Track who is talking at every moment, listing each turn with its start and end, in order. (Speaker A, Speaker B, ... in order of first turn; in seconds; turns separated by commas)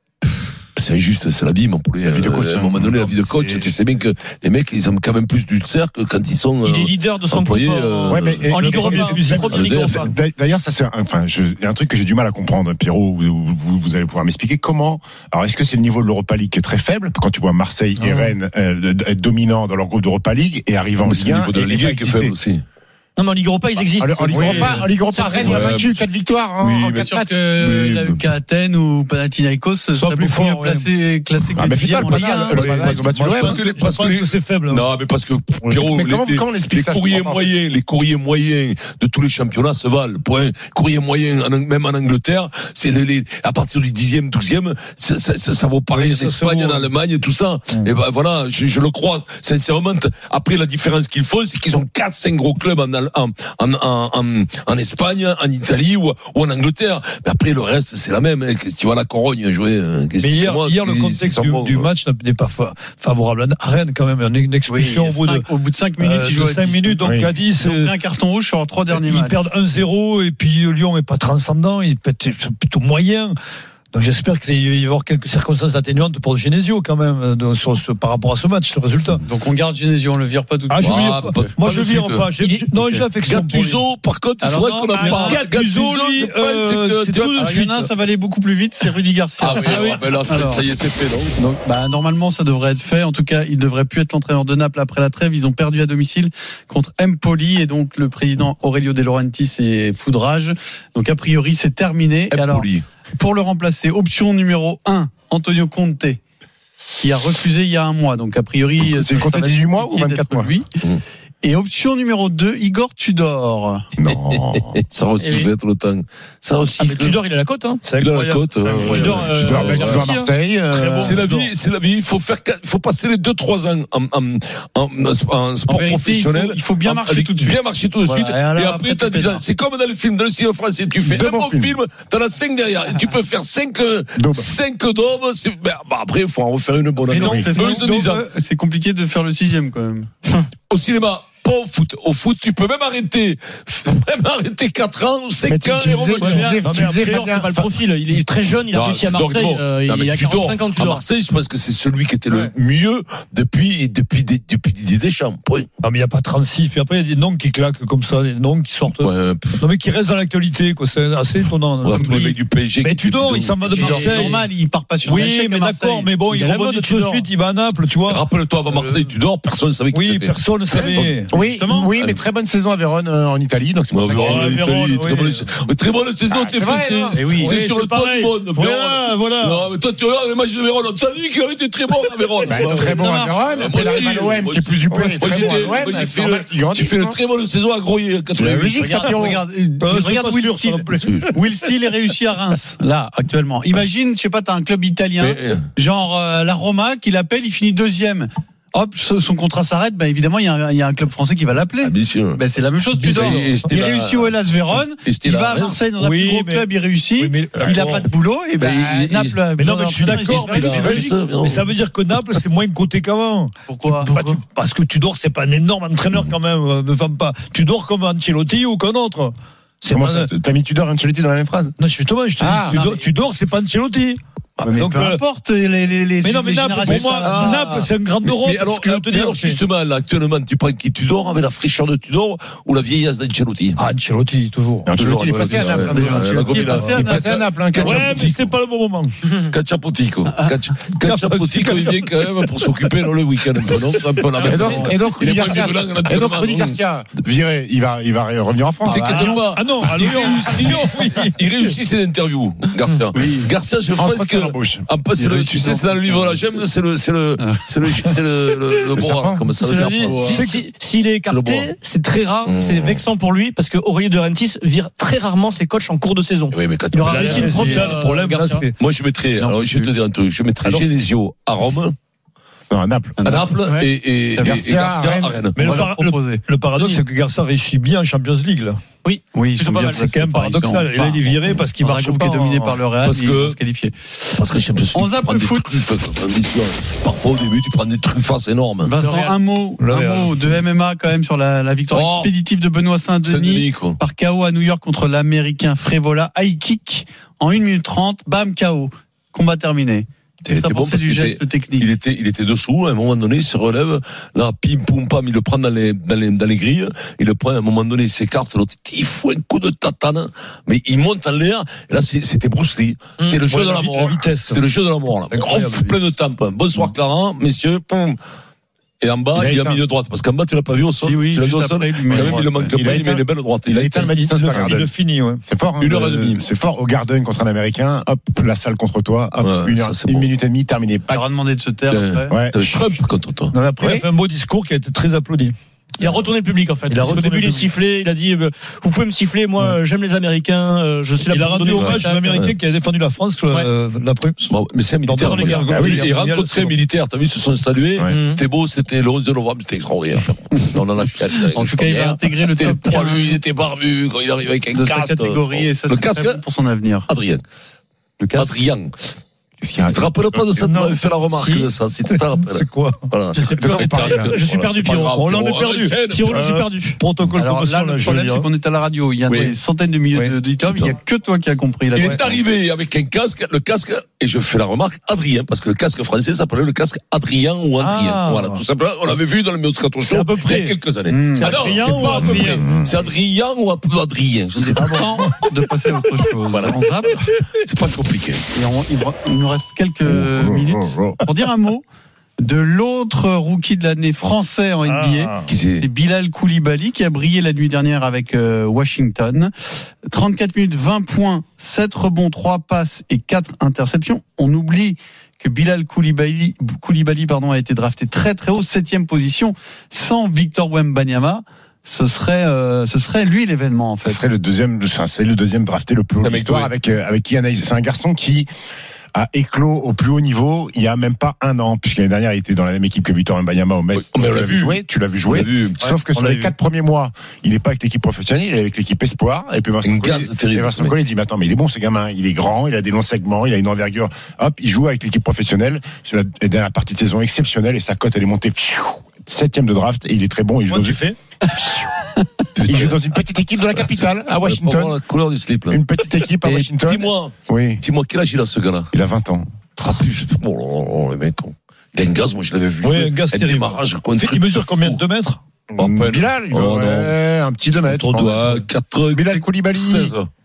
Speaker A: 0.8-10.0, Speaker B: 2.1-3.7, Speaker C: 6.6-10.1, Speaker B: 8.1-22.4, Speaker D: 8.6-9.4, Speaker A: 21.0-22.6, Speaker C: 23.2-25.8, Speaker B: 23.9-27.4, Speaker A: 25.4-26.0, Speaker A: 26.6-28.2, Speaker E: 27.0-32.6, Speaker D: 29.9-30.9, Speaker B: 31.6-33.6, Speaker D: 32.0-34.9, Speaker A: 32.5-61.9, Speaker B: 35.9-37.5, Speaker D: 45.9-46.9, Speaker D: 60.2-65.5, Speaker E: 64.7-69.4, Speaker D: 66.0-67.9, Speaker B: 67.0-67.3, Speaker D: 68.9-73.4, Speaker D: 73.9-79.2, Speaker E: 79.2-81.4, Speaker D: 80.7-83.9, Speaker A: 80.8-82.3, Speaker C: 82.4-82.8, Speaker A: 83.2-87.5, Speaker E: 84.4-85.4, Speaker D: 85.0-87.9, Speaker E: 87.4-90.7, Speaker A: 89.4-91.4, Speaker C: 89.6-90.0, Speaker E: 91.4-106.2, Speaker A: 102.3-102.8, Speaker E: 107.0-110.7, Speaker B: 108.8-110.5, Speaker E: 111.4-113.9, Speaker B: 114.0-114.8, Speaker A: 114.1-117.2, Speaker C: 115.2-115.5, Speaker C: 116.8-117.8, Speaker D: 117.8-119.2, Speaker A: 118.0-120.2, Speaker C: 118.9-120.3, Speaker B: 119.0-121.2, Speaker D: 120.7-121.5, Speaker A: 121.0-138.2, Speaker E: 125.7-129.4, Speaker B: 131.0-131.8, Speaker B: 134.2-134.5, Speaker E: 137.1-140.1, Speaker B: 137.2-137.6, Speaker A: 140.7-146.6, Speaker B: 145.5-147.7, Speaker C: 146.2-151.0, Speaker D: 146.6-147.3, Speaker A: 148.7-155.7, Speaker D: 155.8-164.5, Speaker A: 158.9-159.7, Speaker A: 161.8-164.3, Speaker E: 162.0-162.3, Speaker E: 163.7-166.2, Speaker D: 165.0-169.1, Speaker C: 166.3-167.3, Speaker A: 168.1-171.1, Speaker D: 169.9-171.3, Speaker B: 170.7-174.6, Speaker E: 171.5-171.9, Speaker A: 173.9-182.9, Speaker D: 174.1-175.5, Speaker B: 176.3-177.3, Speaker E: 177.2-177.6, Speaker D: 177.2-179.7, Speaker B: 182.5-187.2, Speaker E: 182.7-183.4, Speaker A: 183.5-188.8, Speaker B: 188.4-189.4, Speaker D: 188.4-188.9, Speaker E: 188.8-211.2, Speaker D: 189.8-191.3, Speaker A: 195.2-195.7, Speaker A: 201.8-202.4, Speaker D: 202.9-203.6, Speaker A: 203.1-205.8, Speaker D: 206.0-208.1, Speaker A: 207.7-208.1, Speaker A: 208.6-209.4, Speaker D: 209.6-220.3, Speaker A: 210.1-211.7, Speaker E: 213.7-214.1, Speaker B: 219.9-221.7, Speaker D: 221.8-224.2, Speaker B: 222.4-222.8, Speaker E: 224.6-227.7, Speaker D: 224.7-225.2, Speaker D: 226.2-229.6, Speaker A: 226.9-233.8, Speaker D: 233.8-234.9, Speaker B: 234.9-238.4, Speaker A: 235.0-238.5, Speaker D: 235.7-236.1, Speaker E: 235.9-237.4, Speaker D: 236.6-236.9, Speaker D: 237.8-239.2, Speaker A: 239.5-246.8, Speaker D: 241.0-243.0, Speaker D: 243.6-244.0, Speaker B: 244.4-249.4, Speaker C: 244.5-244.8, Speaker A: 248.9-260.4, Speaker E: 248.9-249.4, Speaker D: 249.5-251.4, Speaker E: 253.1-253.5, Speaker B: 253.9-254.9, Speaker E: 255.2-256.4, Speaker E: 257.4-257.6, Speaker B: 259.0-259.5, Speaker C: 259.6-268.7, Speaker D: 260.3-260.6, Speaker A: 261.2-261.7, Speaker A: 262.4-263.1, Speaker A: 266.5-267.9, Speaker D: 267.1-268.7, Speaker A: 268.8-271.9, Speaker E: 269.4-269.9, Speaker B: 272.7-273.2, Speaker E: 273.2-273.5, Speaker A: 273.2-275.8, Speaker C: 273.6-273.9, Speaker B: 274.4-275.4, Speaker D: 275.6-278.8, Speaker E: 275.6-276.4, Speaker C: 279.0-280.1, Speaker E: 279.3-283.9, Speaker D: 280.0-282.8, Speaker A: 283.0-283.6, Speaker A: 284.4-288.9, Speaker E: 284.9-285.8, Speaker E: 288.8-301.9, Speaker C: 289.0-289.4, Speaker D: 289.8-290.5, Speaker A: 291.9-292.3, Speaker A: 293.2-294.0, Speaker A: 300.4-318.2, Speaker D: 313.5-314.6, Speaker D: 315.3-315.9, Speaker A: 319.0-324.1, Speaker B: 319.4-319.8, Speaker E: 321.0-322.7, Speaker B: 322.2-324.9, Speaker D: 324.1-325.4, Speaker B: 325.5-331.2, Speaker A: 325.8-326.4, Speaker A: 329.4-330.3, Speaker E: 331.1-332.4, Speaker A: 331.9-333.5, Speaker B: 332.3-332.7, Speaker D: 333.5-335.6, Speaker B: 333.8-334.1, Speaker C: 336.0-342.5, Speaker D: 336.9-337.7, Speaker D: 341.3-344.5, Speaker A: 341.8-342.5, Speaker A: 344.5-356.4, Speaker D: 345.1-346.8, Speaker C: 345.2-345.7, Speaker B: 345.7-346.0, Speaker C: 348.1-348.4, Speaker E: 351.5-353.3, Speaker E: 354.7-357.1, Speaker A: 357.1-357.4, Speaker E: 358.2-358.5, Speaker A: 358.4-358.9, Speaker B: 359.6-360.4, Speaker A: 359.9-366.4, Speaker D: 360.6-361.0, Speaker C: 361.3-361.7, Speaker D: 362.1-363.1, Speaker C: 363.4-365.2, Speaker B: 363.6-364.3, Speaker D: 365.1-368.5, Speaker C: 366.1-367.0, Speaker E: 367.4-372.4, Speaker A: 369.3-369.6, Speaker A: 370.6-370.9, Speaker A: 371.9-385.1, Speaker D: 377.8-378.6, Speaker D: 380.0-380.7, Speaker E: 381.1-381.6, Speaker D: 381.4-382.7, Speaker B: 382.2-382.9, Speaker E: 384.6-387.2, Speaker A: 386.5-386.8, Speaker A: 387.6-388.4, Speaker E: 388.5-391.8, Speaker B: 390.1-391.2, Speaker E: 392.4-399.5, Speaker D: 394.9-395.5, Speaker A: 395.5-395.9, Speaker E: 400.1-414.2, Speaker B: 414.0-418.5, Speaker A: 416.2-416.7, Speaker B: 419.1-441.0, Speaker A: 423.9-425.8, Speaker D: 425.8-426.5, Speaker A: 429.8-430.9, Speaker D: 440.7-441.2, Speaker A: 442.6-443.0, Speaker B: 442.7-444.9, Speaker A: 443.6-445.8, Speaker B: 445.7-447.8, Speaker A: 446.4-448.9, Speaker B: 448.9-449.5, Speaker A: 449.8-455.0, Speaker D: 452.8-455.4, Speaker B: 455.7-458.5, Speaker A: 455.8-457.1, Speaker A: 457.9-460.3, Speaker B: 459.1-460.1